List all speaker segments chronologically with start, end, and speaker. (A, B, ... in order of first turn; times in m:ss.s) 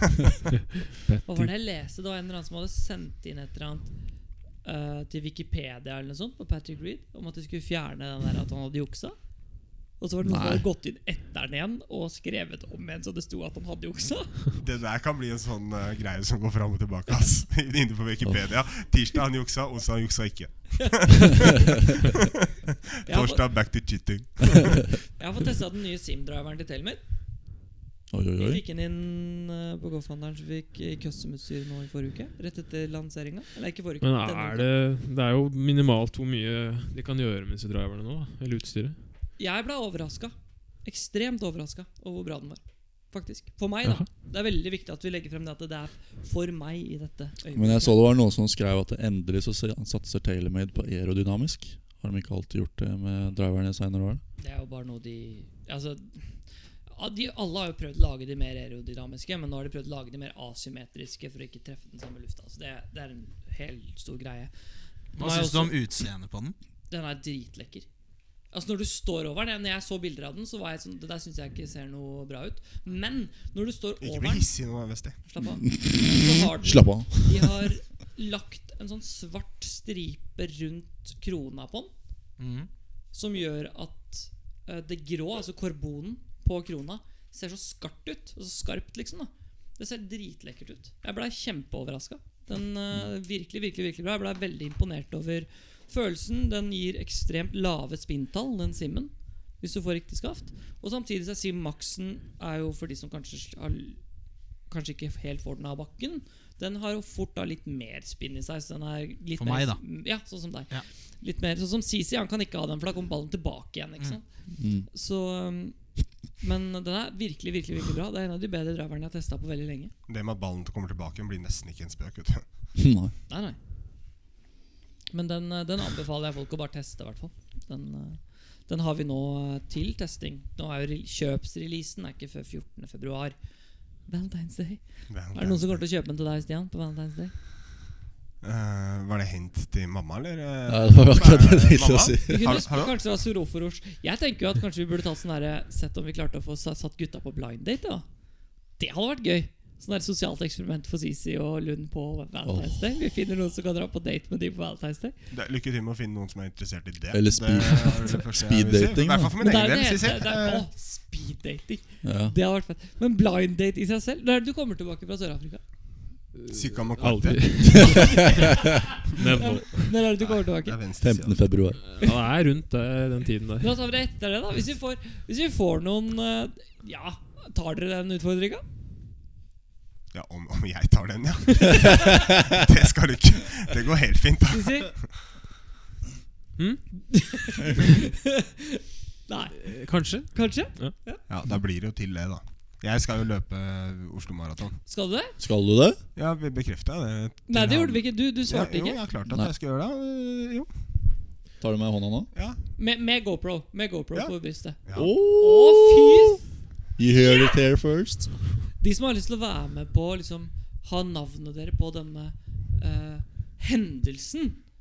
0:01.0-0:01.5 A
0:01.2-0:03.9 B
0:04.6-0:09.2 B
0:10.0-0:14.4 B
0:10.2-0:10.6 C
0:14.6-0:22.1 D
0:18.2-0:18.5 C
0:23.0-0:23.5 B
0:23.0-0:24.9 D
0:25.2-0:27.0 B
0:28.1-0:28.6 C
0:28.4-0:34.7 B
0:34.0-0:39.0 A
0:39.4-0:48.0 B
0:47.5-0:54.2 C
0:54.4-0:56.2 B
0:56.9-1:04.5 B
1:05.2-1:05.8 B
1:05.2-1:06.6 E
1:06.9-1:07.9 B
1:08.5-1:14.6 B
1:14.0-1:15.2 D
1:15.2-1:21.9 B
1:15.4-1:17.7 C
1:22.4-1:22.7 E
1:23.1-1:44.0 B
1:44.7-1:54.2 B
1:49.4-1:49.8 E
1:54.5-1:54.9 C
1:54.9-1:59.9 B
2:00.1-2:02.4 D
2:02.8-2:03.1 C
2:03.3-2:03.6 B
2:05.1-2:13.4 B
2:14.1-2:17.3 B
2:15.1-2:15.8 D
2:18.4-2:23.0 D
2:20.7-2:22.6 C
2:22.3-2:28.0 B
2:28.8-2:35.1 B
2:32.4-2:32.8 C
2:35.3-2:40.6 D
2:37.1-2:39.4 C
2:39.4-2:45.6 B
2:42.0-2:42.3 C
2:46.3-2:48.6 A
2:46.5-2:48.3 D
2:47.7-2:48.5 C
2:49.1-2:50.0 A
2:49.2-2:50.8 B
2:50.2-2:51.6 D
2:51.0-2:51.8 C
2:51.8-2:53.7 A
2:53.6-2:58.6 B
3:00.1-3:05.1 D
3:04.5-3:04.9 B
3:06.6-3:07.0 A
3:07.1-3:11.2 B
3:09.6-3:10.9 A
3:11.3-3:14.8 D
3:14.8-3:15.4 B
3:15.4-3:16.0 C
3:16.1-3:20.7 D
3:17.5-3:19.0 B
3:21.6-3:22.3 C
3:22.3-3:22.6 D
3:22.8-3:26.4 B
3:24.8-3:25.1 D
3:25.0-3:26.4 C
3:27.0-3:28.3 C
3:28.8-3:34.6 B